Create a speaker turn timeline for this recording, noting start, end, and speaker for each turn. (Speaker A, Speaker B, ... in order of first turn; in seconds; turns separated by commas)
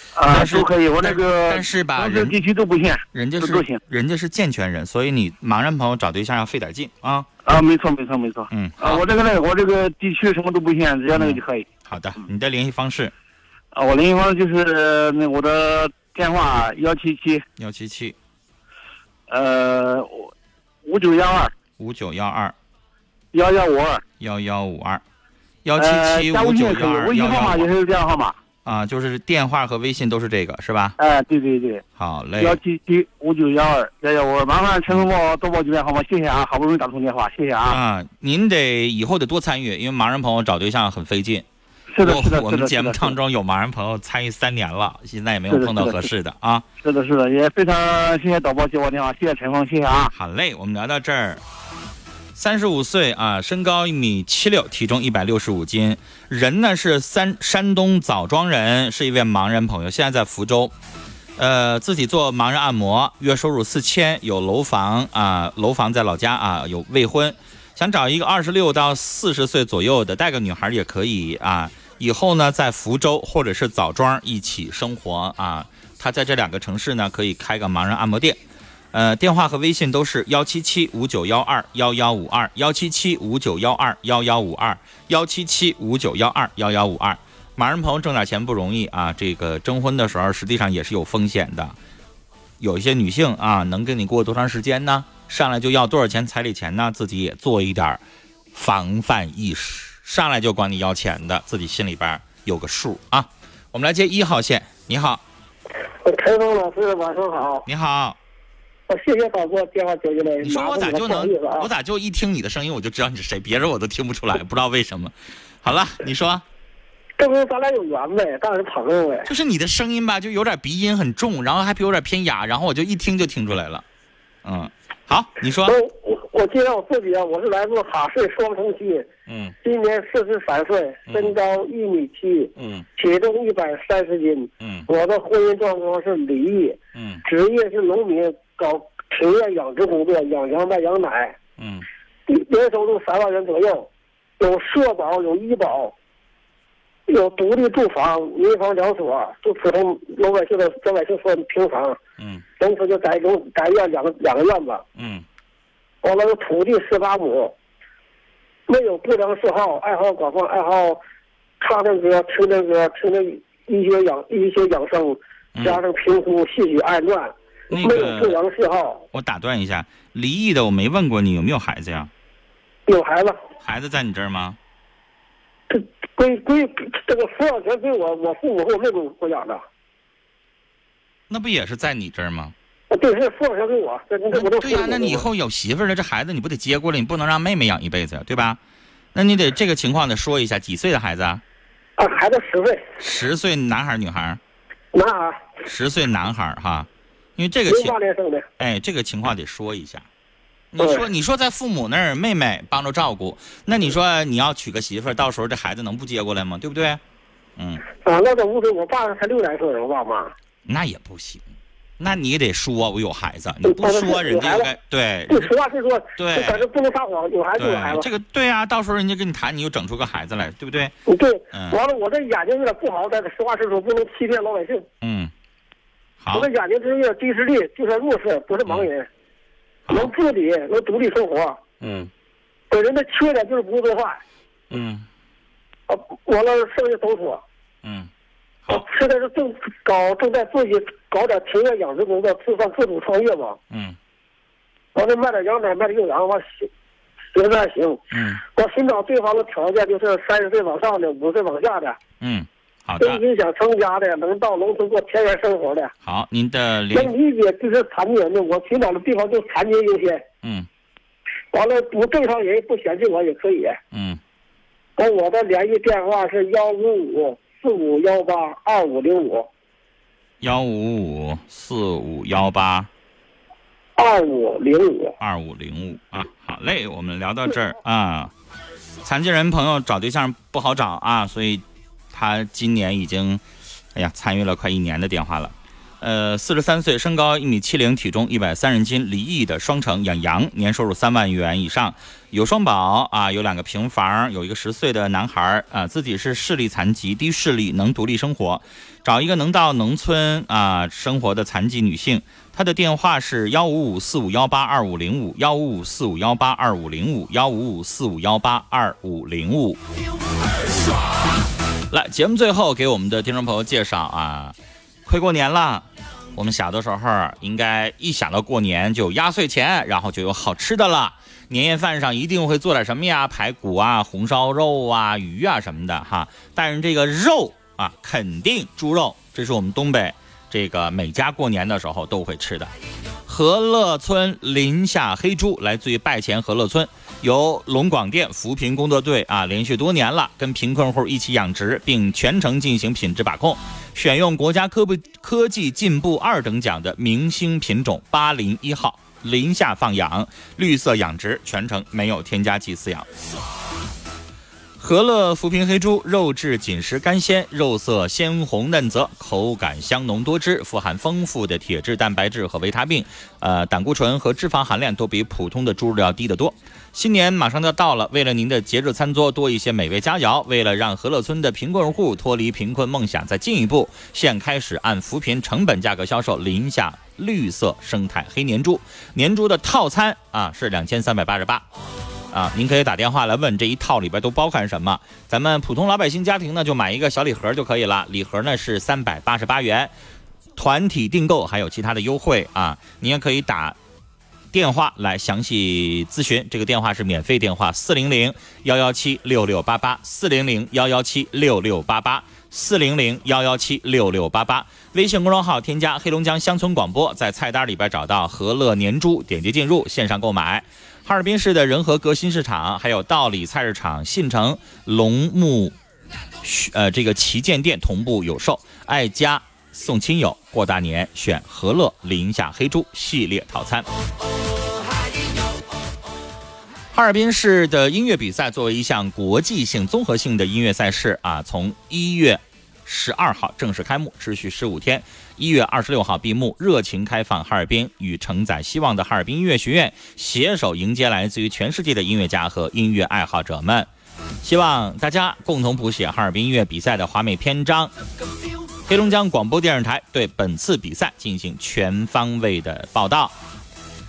Speaker A: 0.1-3.8, Speaker B: 0.2-2.4, Speaker B: 3.1-7.3, Speaker A: 7.4-11.7, Speaker B: 8.5-9.0, Speaker B: 11.1-13.1, Speaker A: 13.7-17.4, Speaker B: 17.6-18.1, Speaker A: 19.3-20.3, Speaker A: 20.8-21.5, Speaker B: 21.8-22.5, Speaker A: 23.3-24.0, Speaker B: 24.2-25.0, Speaker B: 25.6-27.7, Speaker A: 25.8-28.4, Speaker B: 28.6-31.0, Speaker A: 31.0-31.8, Speaker B: 31.9-32.6, Speaker A: 32.4-37.8, Speaker B: 37.7-41.4, Speaker A: 41.9-43.1, Speaker B: 42.0-46.6, Speaker A: 45.5-46.1, Speaker A: 46.8-50.1, Speaker B: 50.1-51.4, Speaker B: 52.3-60.7, Speaker B: 61.4-78.4, Speaker B: 78.9-91.8, Speaker B: 92.6-98.0, Speaker B: 98.5-105.2, Speaker C: 106.0-107.6, Speaker B: 107.7-108.2, Speaker C: 108.9-111.7, Speaker B: 110.4-116.4, Speaker C: 117.2-119.3, Speaker B: 119.2-123.8, Speaker B: 124.4-125.8, Speaker C: 125.7-129.1, Speaker B: 129.3-129.5, Speaker C: 129.6-141.3, Speaker B: 131.1-131.3, Speaker B: 132.6-132.8, Speaker B: 134.6-134.9, Speaker B: 136.9-137.2, Speaker B: 141.6-141.8, Speaker C: 142.3-143.9, Speaker C: 144.4-145.9, Speaker C: 147.1-152.0, Speaker B: 152.2-152.4, Speaker C: 152.6-154.8, Speaker B: 154.9-155.2, Speaker C: 156.0-157.5, Speaker C: 158.7-161.0, Speaker C: 161.6-169.0, Speaker B: 165.5-165.8, Speaker B: 167.7-168.4, Speaker B: 169.1-172.1, Speaker C: 172.9-173.4, Speaker B: 173.6-174.6, Speaker C: 175.7-179.6, Speaker B: 181.3-182.5, Speaker C: 182.9-185.2, Speaker B: 184.3-188.6, Speaker B: 189.1-191.4, Speaker C: 192.0-192.8, Speaker B: 193.0-194.4, Speaker C: 194.9-195.6, Speaker B: 195.7-197.9, Speaker C: 197.7-198.4, Speaker B: 198.6-200.1, Speaker B: 200.7-207.0, Speaker C: 200.8-201.1, Speaker B: 207.6-207.8, Speaker C: 208.0-210.3, Speaker B: 210.7-211.5, Speaker B: 212.0-215.5, Speaker C: 213.6-214.7, Speaker C: 215.3-218.1, Speaker B: 216.2-216.6, Speaker B: 217.6-220.9, Speaker C: 221.1-224.8, Speaker B: 225.0-225.3, Speaker B: 226.2-226.5, Speaker C: 226.3-229.1, Speaker C: 229.9-231.6, Speaker B: 231.8-232.1, Speaker C: 232.7-234.2, Speaker B: 234.7-235.0, Speaker C: 235.9-237.4, Speaker B: 237.8-238.1, Speaker C: 238.7-243.6, Speaker B: 243.7-243.9, Speaker C: 244.9-246.7, Speaker C: 247.3-248.0, Speaker B: 248.1-248.4, Speaker C: 248.6-252.0, Speaker B: 252.2-253.2, Speaker C: 253.0-255.9, Speaker B: 256.0-257.1, Speaker C: 256.9-260.2, Speaker C: 261.5-263.8, Speaker B: 263.9-264.2, Speaker C: 265.0-269.5, Speaker B: 270.4-272.9, Speaker C: 274.0-275.1, Speaker B: 275.2-278.3, Speaker B: 279.0-309.8, Speaker B: 311.9-332.7, Speaker B: 333.2-353.1, Speaker B: 354.8-381.6, Speaker B: 382.3-389.9, Speaker B: 390.6-393.8, Speaker B: 394.5-415.7, Speaker B: 416.4-423.9, Speaker B: 426.9-443.9, Speaker B: 444.4-447.9, Speaker B: 448.9-453.3